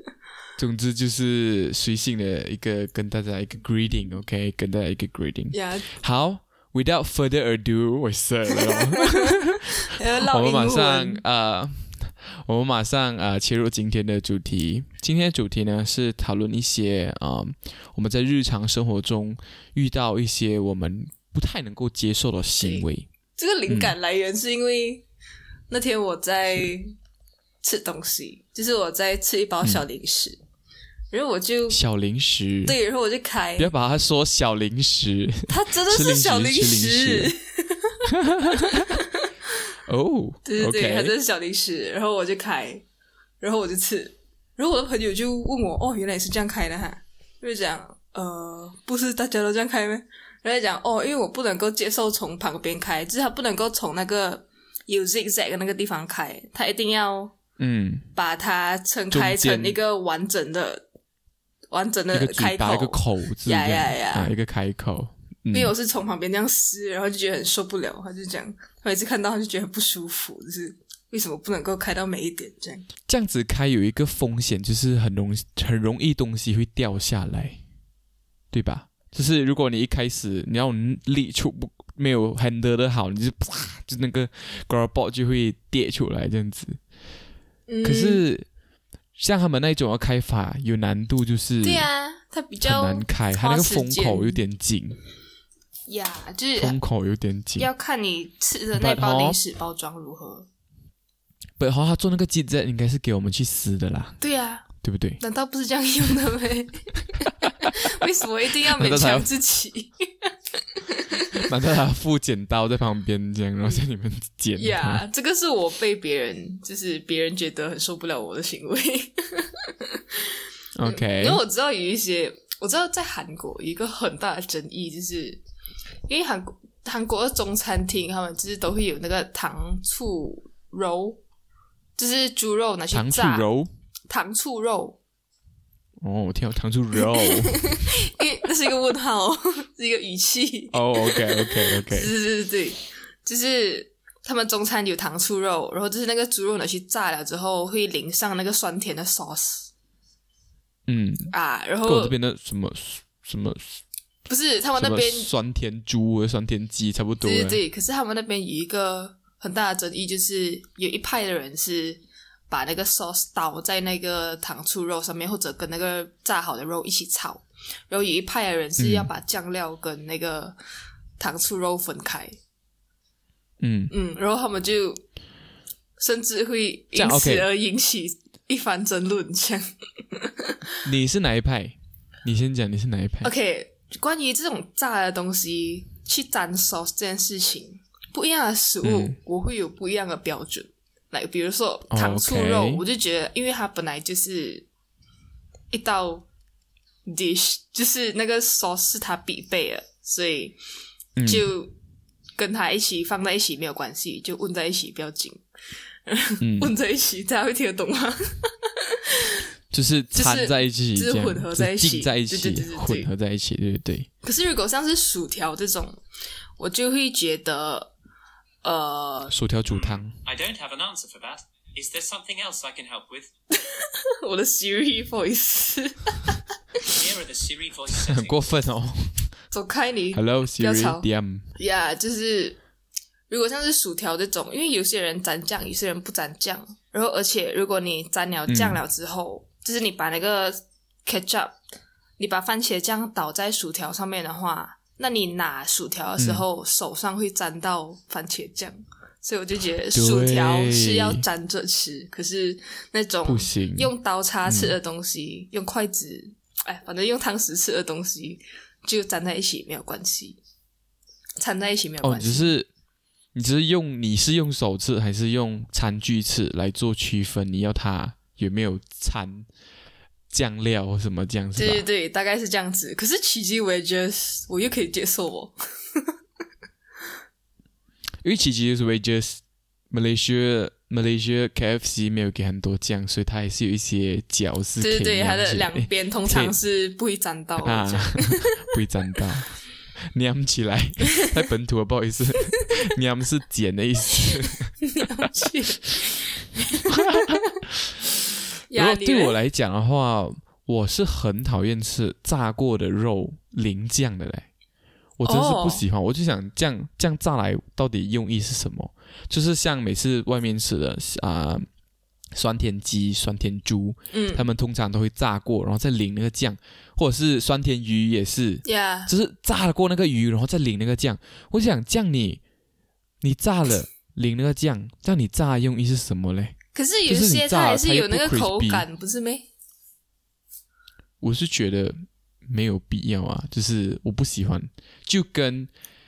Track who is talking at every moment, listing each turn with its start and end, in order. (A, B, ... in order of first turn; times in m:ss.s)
0:00.6-0:09.6 A
0:05.5-0:05.9 B
0:09.0-0:09.4 B
0:09.9-0:11.2 B
0:10.3-0:23.1 A
0:22.6-0:25.1 B
0:23.7-0:23.9 A
0:25.7-0:26.9 B
0:27.6-0:30.4 B
0:31.1-0:31.8 B
0:31.7-0:32.8 A
0:32.6-0:33.7 B
0:33.6-0:37.3 A
0:35.5-0:39.2 B
0:38.1-0:38.9 A
0:39.9-0:41.1 A
0:40.4-0:42.8 B
0:43.4-0:57.3 B
0:57.6-0:58.1 A
0:58.1-1:00.8 B
0:59.1-0:59.8 A
1:01.7-1:04.3 B
1:02.1-1:05.7 A
1:05.5-1:12.9 B
1:13.1-1:17.6 A
1:18.5-1:26.8 A
1:27.7-1:28.2 B
1:27.8-1:28.5 A
1:29.2-1:31.9 A
1:31.6-1:34.4 B
1:32.6-1:35.0 A
1:35.9-1:36.8 B
1:36.6-1:37.7 A
1:37.6-1:40.5 B
1:38.8-1:39.4 A
1:41.6-1:44.2 A
1:44.2-1:44.7 B
1:44.8-1:45.2 A
1:45.2-1:51.5 B
1:48.7-1:49.3 A
1:51.3-1:55.0 A
1:54.6-2:00.3 B
2:00.8-2:01.4 A
2:00.9-2:05.4 B
2:06.1-2:11.2 B
2:12.0-2:13.5 B
2:12.9-2:13.7 A
2:14.1-2:15.0 B
2:16.0-2:17.8 A
2:17.2-2:29.7 B
2:20.7-2:22.1 A
2:30.9-2:33.8 A
2:31.3-2:32.1 B
2:34.3-2:35.3 B
2:34.8-2:37.6 A
2:37.2-2:50.6 B
2:48.8-2:49.1 A
2:51.2-2:52.4 B
2:53.6-2:53.9 A
2:53.9-2:55.0 B
2:56.0-3:00.6 B
2:56.9-2:57.5 A
3:00.8-3:03.3 A
3:03.2-3:14.7 B
3:08.8-3:09.2 A
3:11.9-3:12.8 A
3:15.7-3:16.3 B
3:17.1-3:20.6 B
3:21.2-3:21.5 A
3:21.2-3:21.7 B
3:22.4-3:25.4 B
3:26.1-3:29.3 B
3:26.4-3:26.7 A
3:29.7-3:34.1 A
3:30.1-3:33.1 B
3:34.2-3:36.0 B
3:36.6-3:37.9 B
3:38.6-3:39.3 B
3:39.3-3:40.2 A
3:39.7-3:43.3 C
3:43.6-3:46.9 B
3:46.8-3:48.5 C
3:48.0-3:49.3 A
3:49.5-3:51.0 B
3:50.1-3:51.5 A
3:51.6-3:52.6 B
3:53.3-4:01.6 B
3:58.5-3:58.8 A
4:02.2-4:20.4 B
4:06.2-4:06.4 A
4:09.9-4:11.2 A
4:13.2-4:13.9 A
4:14.4-4:14.8 A
4:21.4-4:22.5 B
4:22.0-4:22.7 A
4:23.3-4:29.5 A
4:30.3-4:31.9 A
4:31.6-4:36.0 B
4:38.2-4:46.6 A
4:44.8-4:48.6 B
4:47.6-4:49.6 A
4:50.1-4:54.8 A
4:54.9-4:57.4 B
4:56.9-4:57.4 A
4:58.7-4:59.4 B
4:58.8-5:04.5 A
5:05.2-5:11.7 A
5:05.2-5:05.8 B
5:12.3-5:22.4 A
5:14.1-5:14.4 B
5:18.6-5:19.1 B
5:23.2-5:28.8 A
5:26.7-5:29.5 B
5:31.2-5:35.7 A